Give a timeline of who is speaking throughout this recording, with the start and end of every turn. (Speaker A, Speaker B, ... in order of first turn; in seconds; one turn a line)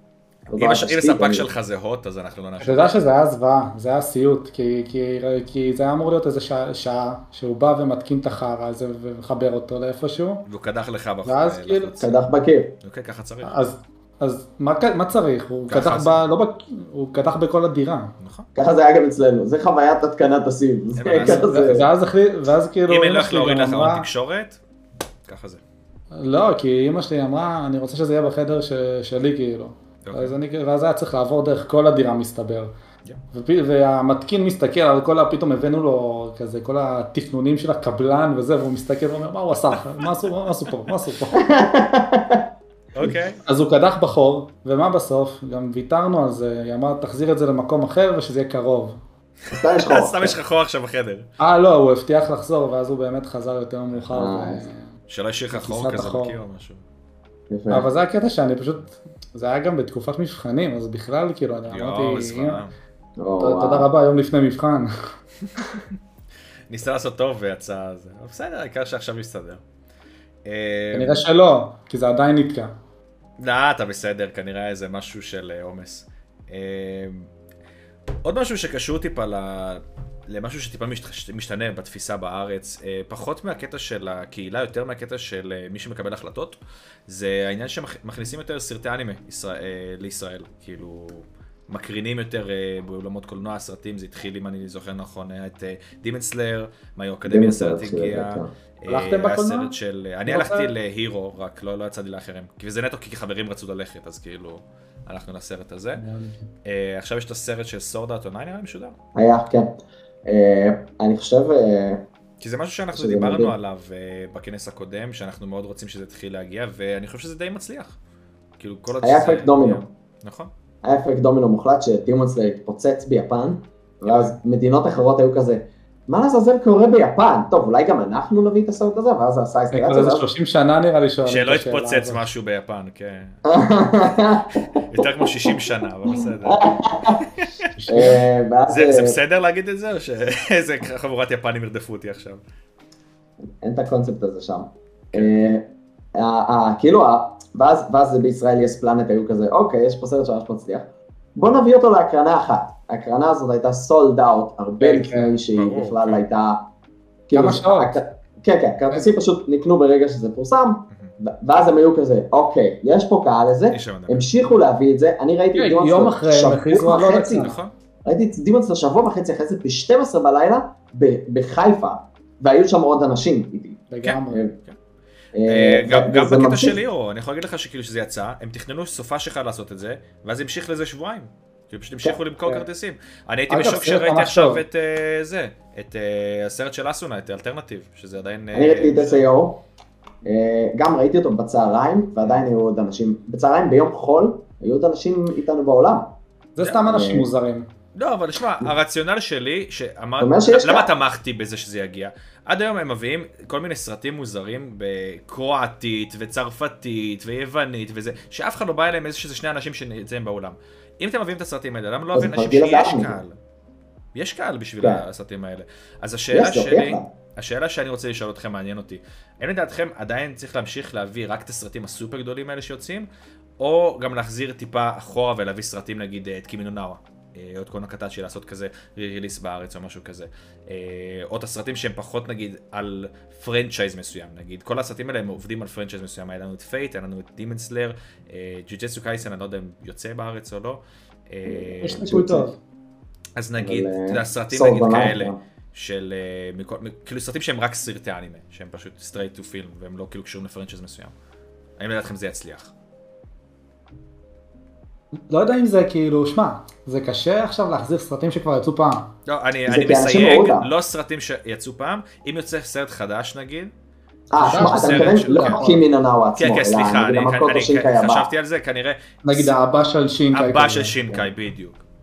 Speaker A: 0.5-1.5
Speaker B: 0.5-3.0
Speaker C: 2.6-10.5
Speaker B: 10.5-12.2
Speaker C: 11.2-12.0
Speaker A: 12.0-12.7
Speaker B: 12.8-13.5
Speaker C: 13.4-18.1
Speaker B: 15.7-16.2
Speaker B: 18.2-18.5
Speaker A: 18.6-21.9
Speaker B: 21.0-21.9
Speaker C: 21.1-24.1
Speaker B: 22.9-24.6
Speaker B: 25.3-25.6
Speaker C: 26.1-32.7
Speaker B: 30.0-30.4
Speaker C: 33.3-41.5
Speaker A: 41.4-42.5
Speaker B: 43.0-43.4
Speaker C: 43.5-49.0
Speaker A: 49.5-50.4
Speaker B: 49.8-51.3
Speaker C: 51.4-54.9
Speaker A: 54.1-54.7
Speaker B: 55.1-56.8
Speaker C: 55.5-56.4
Speaker A: 57.5-57.9
Speaker C: 57.7-62.6
Speaker B: 61.7-62.7
Speaker A: 63.2-63.9
Speaker C: 63.4-65.1
Speaker B: 66.7-69.6
Speaker B: 70.5-71.2
Speaker C: 70.9-72.7
Speaker B: 73.4-77.3
Speaker B: 78.2-86.6
Speaker B: 87.1-106.0
Speaker A: 97.2-98.5
Speaker C: 98.9-99.8
Speaker C: 100.3-100.7
Speaker C: 106.0-106.5
Speaker B: 106.7-108.9
Speaker A: 109.2-112.0
Speaker B: 112.4-118.0
Speaker A: 112.9-113.5
Speaker B: 118.6-120.5
Speaker A: 119.0-119.9
Speaker A: 120.8-130.3
Speaker B: 124.1-124.3
Speaker C: 129.7-132.2
Speaker B: 131.2-133.4
Speaker A: 133.5-137.3
Speaker B: 134.8-136.6
Speaker C: 137.7-138.3
Speaker A: 137.9-139.2
Speaker B: 138.7-142.4
Speaker A: 143.6-156.6
Speaker C: 154.8-155.3
Speaker B: 155.5-156.2
Speaker A: 157.3-167.5
Speaker C: 157.3-158.0
Speaker B: 163.7-164.2
Speaker C: 165.6-167.6
Speaker B: 167.3-167.7
Speaker A: 168.1-174.5
Speaker C: 173.9-174.4
Speaker B: 174.0-174.8
Speaker A: 175.3-176.8
Speaker B: 175.5-189.2
Speaker C: 183.5-184.6
Speaker A: 188.5-189.6
Speaker A: 190.2-196.1
Speaker C: 196.6-197.7
Speaker A: 196.9-197.3
Speaker B: 198.0-213.3
Speaker A: 200.2-200.9
Speaker A: 212.1-213.2
Speaker B: 214.2-223.1
Speaker A: 216.3-217.1
Speaker B: 223.6-242.1
Speaker A: 241.5-242.6
Speaker C: 241.8-242.6
Speaker B: 243.4-251.1
Speaker A: 243.6-245.4
Speaker B: 251.8-252.7
Speaker C: 255.3-259.1
Speaker B: 259.3-263.7
Speaker A: 259.7-260.7
Speaker A: 264.3-268.3
Speaker B: 264.4-265.6
Speaker C: 264.4-265.8
Speaker B: 266.4-269.5
Speaker C: 269.2-271.0
Speaker B: 270.3-271.8